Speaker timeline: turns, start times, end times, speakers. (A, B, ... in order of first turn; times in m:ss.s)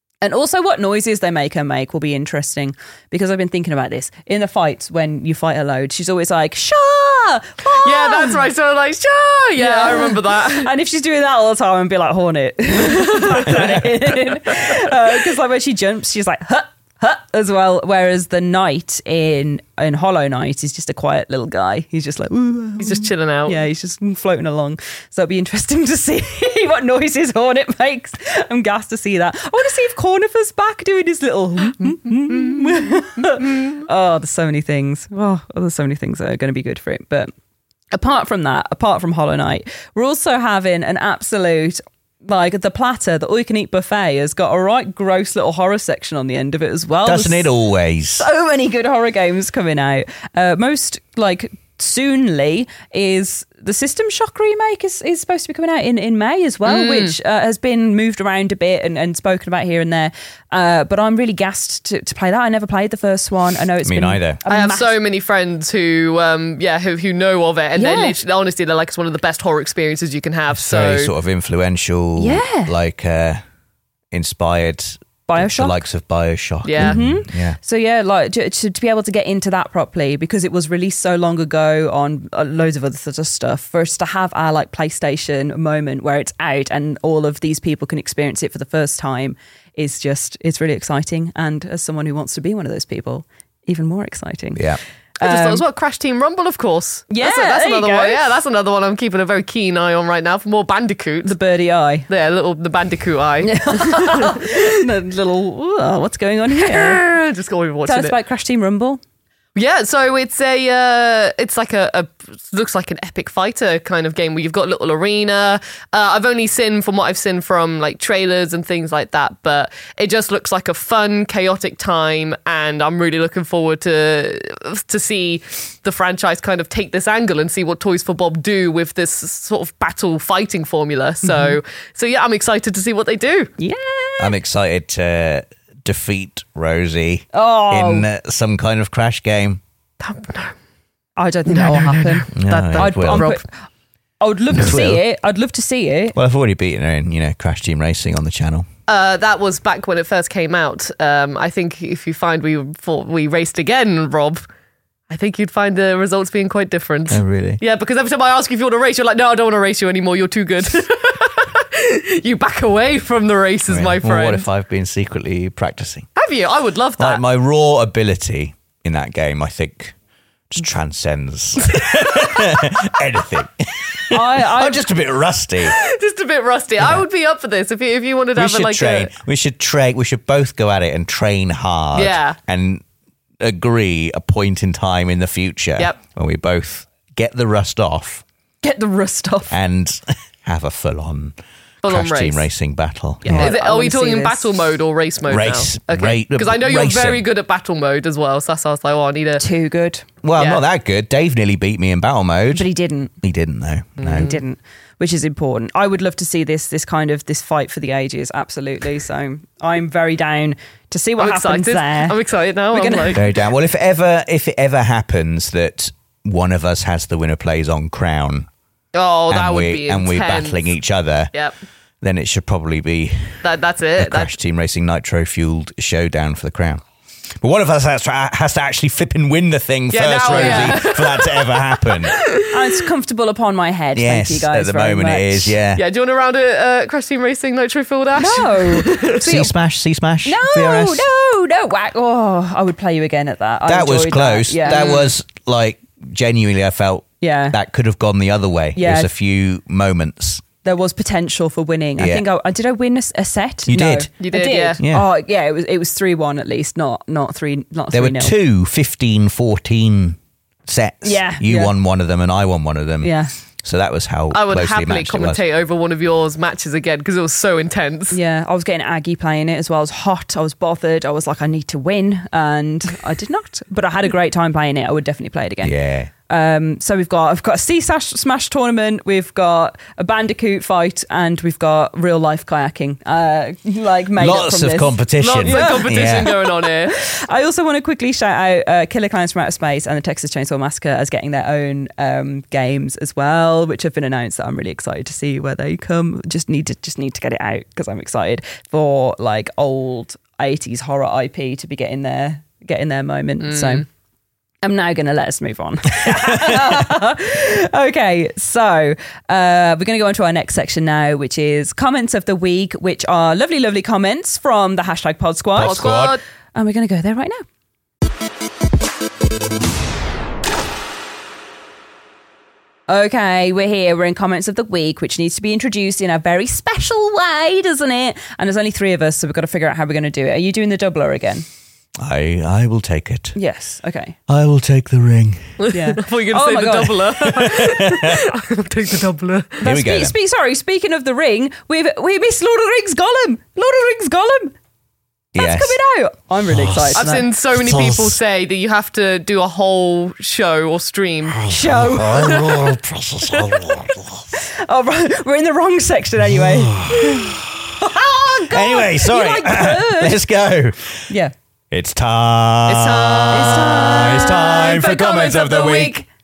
0:00.2-0:08.4 A
0:07.8-0:10.7 B
0:09.6-0:37.3 A
0:13.1-0:13.5 B
0:22.8-0:23.6 B
0:37.9-0:47.5 A
0:47.0-0:48.2 C
0:48.2-1:05.0 A
0:56.6-0:57.2 B
1:03.8-1:04.4 C
1:04.5-1:11.1 B
1:07.8-1:08.2 A
1:10.5-1:13.4 C
1:12.2-1:12.7 A
1:14.1-1:17.6 C
1:15.3-1:15.8 A
1:16.6-1:17.0 B
1:16.8-1:34.6 A
1:35.2-1:35.6 A
1:35.2-1:41.4 B
1:37.1-1:38.3 A
1:41.2-1:42.1 A
1:42.1-1:44.8 B
1:43.4-1:47.0 A
1:46.6-1:48.2 B
1:47.9-1:49.0 A
1:49.6-2:13.5 B
2:11.2-2:11.6 A
2:13.6-2:14.4 A
2:14.2-2:19.6 C
2:17.3-2:18.1 A
2:20.0-2:20.5 B
2:21.2-2:23.4 A
2:21.5-2:23.4 B
2:22.3-2:23.3 C
2:24.2-2:26.1 A
2:24.5-2:25.0 C
2:26.1-2:28.7 C
2:28.9-2:34.4 B
2:35.1-2:44.4 B
2:37.1-2:37.6 C
2:43.7-2:46.1 C
2:46.2-2:47.2 B
2:47.0-2:50.0 C
2:50.5-2:55.8 C
2:54.1-2:54.9 A
2:55.6-2:59.1 B
2:58.4-3:02.8 C
3:02.0-3:02.4 B
3:03.4-3:08.2 C
3:08.6-3:09.6 A
3:09.5-3:13.5 C
3:11.8-3:12.5 B
3:13.2-3:14.5 A
3:13.2-3:19.4 B
3:15.3-3:17.2 C
3:19.4-3:20.1 A
3:20.2-3:22.7 C
3:20.4-3:20.6 B
3:22.5-3:23.1 A
3:23.2-3:24.4 C
3:24.0-3:24.4 B
3:24.0-3:32.2 A
3:31.2-3:33.3 B
3:32.7-3:33.2 A
3:33.1-3:38.5 C
3:38.9-3:40.7 B
3:39.3-3:41.3 C
3:42.0-3:43.4 C
3:43.4-3:44.3 B
3:44.0-3:46.8 C
3:47.4-3:52.1 C
3:49.9-3:52.5 B
3:50.3-3:50.8 A
3:52.5-3:55.6 A
3:53.9-3:55.8 C
3:55.8-3:59.3 B
3:58.2-3:59.5 A
3:59.1-4:01.1 C
4:00.2-4:04.9 A
4:03.7-4:10.4 C
4:04.6-4:05.1 B
4:07.2-4:07.6 A
4:08.8-4:09.1 A
4:10.6-4:18.4 A
4:12.0-4:12.2 C
4:13.7-4:14.1 C
4:14.2-4:14.8 B
4:14.8-4:15.1 C
4:17.9-4:23.1 C
4:21.0-4:21.7 A
4:23.0-4:23.3 A
4:23.6-4:25.4 C
4:24.3-4:28.2 B
4:28.1-4:35.8 A
4:35.6-4:36.1 C
4:36.3-5:03.8 A
4:44.2-4:46.3 C
4:45.2-4:47.0 B
5:03.4-5:03.8 B
5:04.6-5:15.9 A
5:06.0-5:06.6 C
5:15.6-5:16.2 C
5:15.6-5:16.2 B
5:16.6-5:17.4 A
5:22.9-5:31.4 A
5:32.0-5:33.4 C
5:33.4-5:34.2 A
5:34.3-5:35.5 C
5:35.6-5:39.6 B
5:35.7-5:37.1 A
5:37.2-5:38.2 C
5:39.6-5:44.6 A
5:39.6-5:40.1 C
5:45.3-5:45.8 C
5:45.4-5:47.3 A
5:46.5-5:48.2 C
5:47.0-5:51.5 B
5:51.3-5:54.3 C
5:51.5-5:52.6 A
5:52.2-5:52.7 B
5:54.3-6:00.2 A
5:56.3-6:01.1 C
6:01.7-6:06.0 C
6:02.7-6:06.0 B
6:03.3-6:04.4 A